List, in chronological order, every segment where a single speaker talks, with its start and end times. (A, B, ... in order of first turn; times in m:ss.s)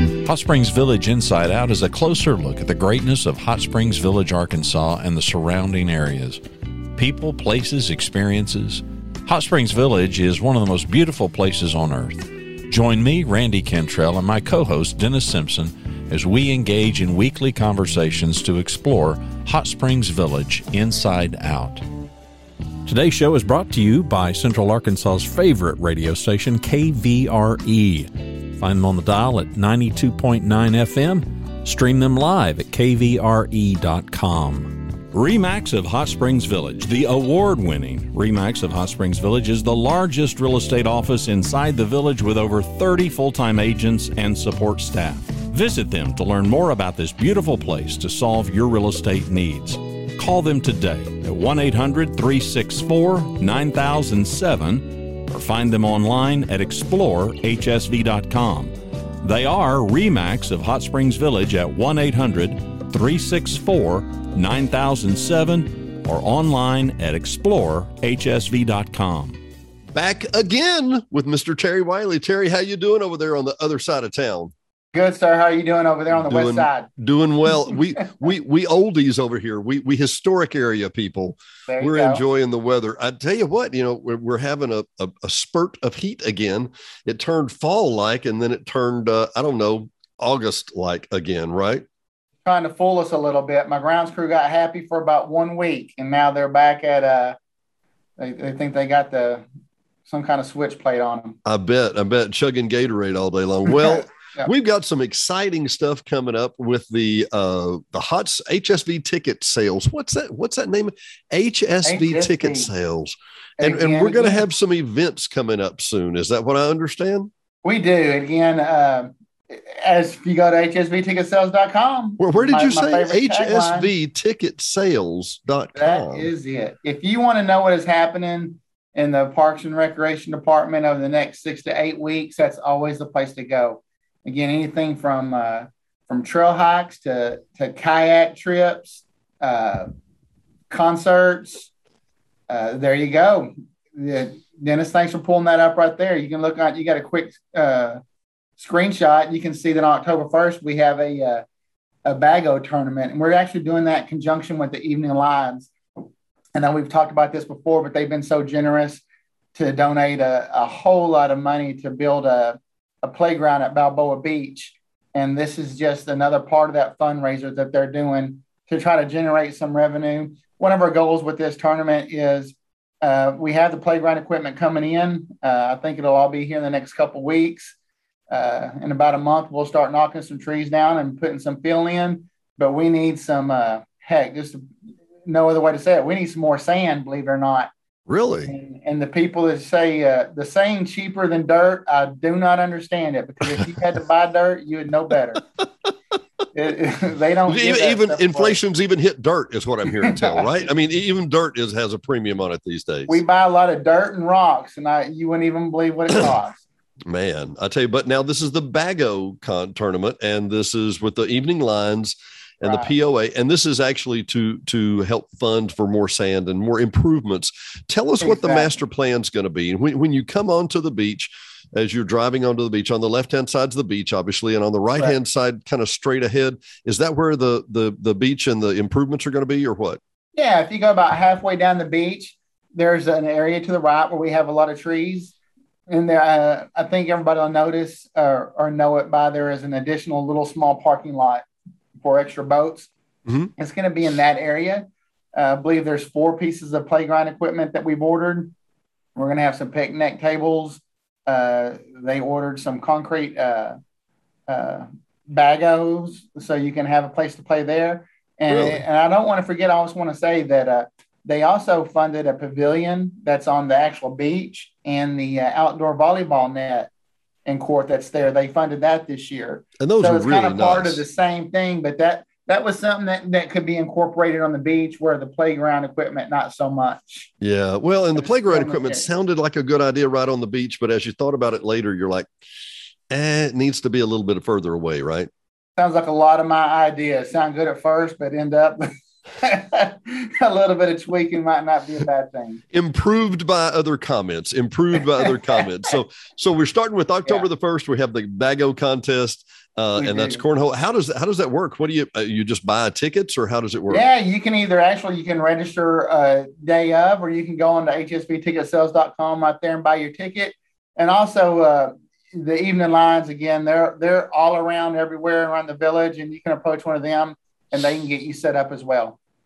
0:00.2-0:06.4 A
0:07.0-0:21.8 A
0:22.9-1:09.4 A
1:09.9-1:14.5 B
1:14.9-1:16.9 C
1:16.1-1:31.8 B
1:21.7-1:22.2 C
1:32.4-1:37.4 C
1:38.2-1:39.4 C
1:40.1-1:41.4 C
1:41.4-1:57.3 B
1:51.8-1:52.7 C
1:53.6-1:54.4 C
1:57.6-2:03.9 C
2:02.2-2:06.3 B
2:05.7-2:19.9 C
2:20.7-2:21.7 C
2:22.5-2:28.0 C
2:28.6-2:31.4 C
2:32.0-2:35.7 C
2:36.6-2:39.0 C
2:39.5-2:57.8 C
2:58.3-3:04.7 C
3:05.2-3:07.7 C
3:08.1-3:08.5 B
3:08.4-3:15.4 C
3:16.5-3:18.6 C
3:17.5-3:23.2 B
3:20.0-3:20.4 C
3:23.1-3:26.6 C
3:27.1-3:50.0 B
3:32.6-3:32.9 C
3:38.2-3:38.7 C
3:50.4-3:55.4 C
3:55.9-4:01.5 C
4:02.0-4:02.9 C
4:03.6-4:08.5 C
4:09.2-4:13.8 C
4:14.5-4:26.9 C
4:18.5-4:18.8 B
4:27.5-4:37.3 C
4:29.8-4:31.0 B
4:37.4-4:42.3 B
4:38.2-4:39.0 C
4:43.1-4:45.3 B
4:45.8-4:52.6 C
4:52.7-5:04.0 B
4:55.2-4:55.6 C
5:00.0-5:00.4 C
5:03.9-5:19.2 C